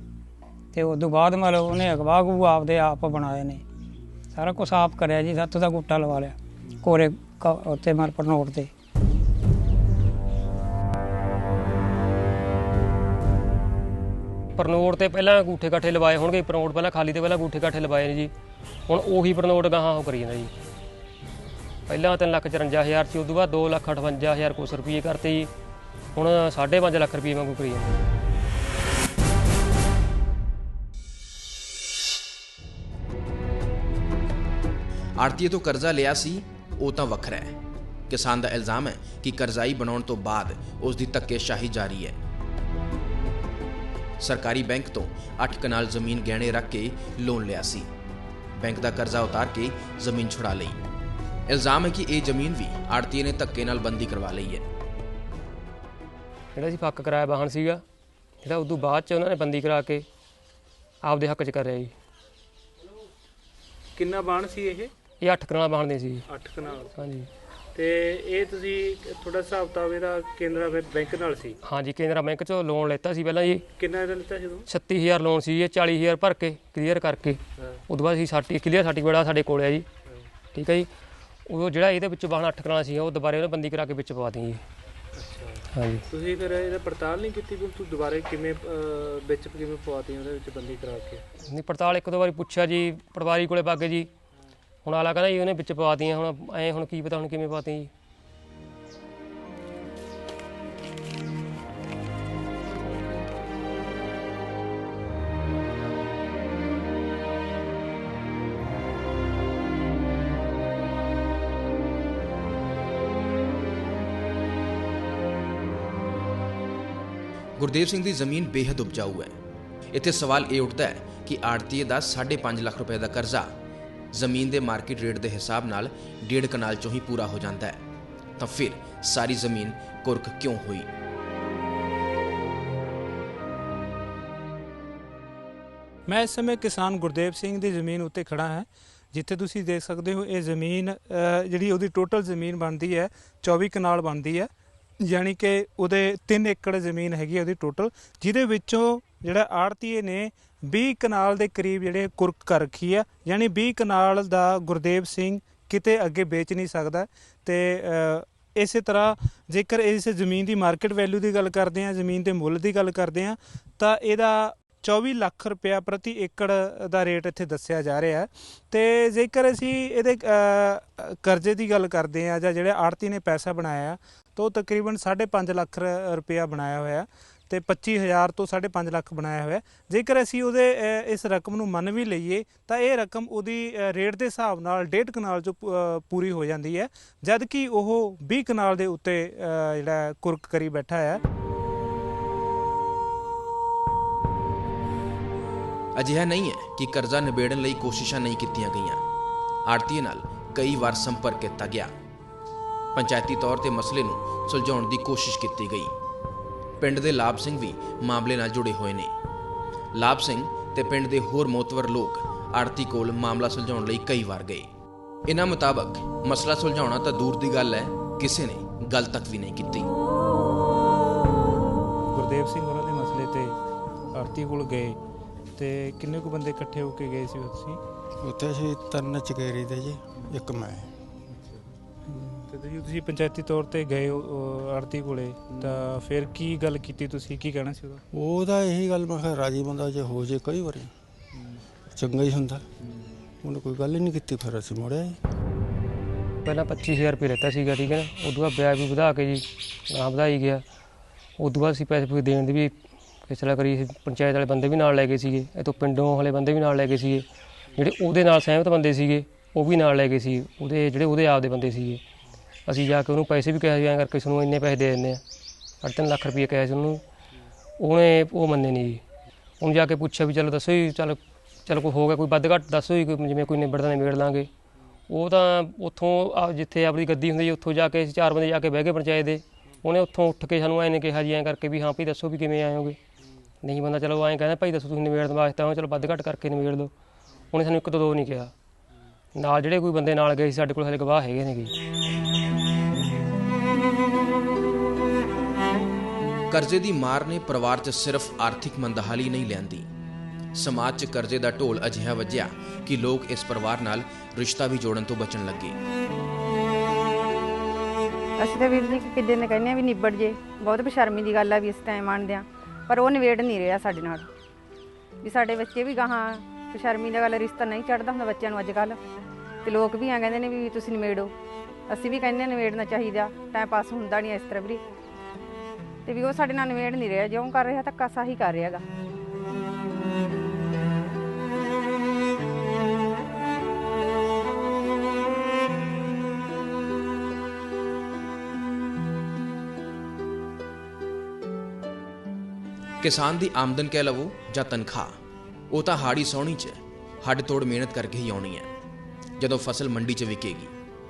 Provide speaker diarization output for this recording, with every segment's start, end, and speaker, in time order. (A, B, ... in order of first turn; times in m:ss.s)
0:00.7-0:03.6 A
0:04.3-0:08.7 A
0:14.6-0:18.3 B
0:18.9-0:20.5 B
0:21.9-0:25.5 B
0:26.2-0:28.0 B
0:35.2-0:37.5 C
0:38.1-0:42.2 C
0:44.2-0:47.9 C
0:48.6-0:50.8 C
0:51.5-0:54.6 C
0:56.6-0:57.8 B
0:58.4-1:00.0 B
1:01.1-1:01.9 B
1:04.0-1:04.9 D
1:05.2-1:06.3 B
1:06.3-1:06.9 D
1:06.9-1:07.3 B
1:07.8-1:11.6 D
1:11.6-1:13.6 B
1:13.8-1:14.6 D
1:14.7-1:19.9 B
1:20.5-1:20.9 B
1:21.5-1:24.6 B
1:25.2-1:31.2 D
1:25.7-1:26.0 B
1:31.5-1:34.1 B
1:34.8-1:37.9 B
1:57.6-1:59.4 C
1:59.9-2:03.5 C
2:04.1-2:07.8 C
2:08.4-2:10.9 C
2:16.1-2:24.5 E
2:25.0-3:11.2 E
3:16.0-3:19.0 C
3:19.7-3:21.9 C
3:22.9-3:25.9 C
3:26.8-3:29.1 C
3:29.9-3:34.7 C
3:35.3-3:39.9 C
3:42.2-3:43.6 E
3:44.2-3:45.0 E
3:45.6-3:47.8 E
3:48.2-3:50.9 F
3:52.1-3:52.4 F
3:52.5-3:58.0 E
3:58.1-4:00.9 F
4:01.9-4:02.6 F
4:03.4-4:05.2 F
4:06.4-4:10.6 B
4:11.4-4:12.7 B
4:13.3-4:22.0 B
4:22.7-4:25.2 B
4:25.8-4:27.0 B
4:27.8-4:29.0 B
4:29.6-4:34.5 B
4:35.1-4:43.0 B
4:43.6-4:46.9 B
4:47.5-4:48.5 B
4:49.4-4:51.7 B
4:56.5-4:59.9 C
5:00.6-5:05.8 C
5:08.4-5:14.3 G
5:15.2-5:19.0 G
5:19.6-5:21.3 G
5:21.9-5:24.8 G
5:26.1-5:28.8 G
5:43.0-5:45.1 C
5:45.7-5:48.7 C
5:49.4-5:50.7 C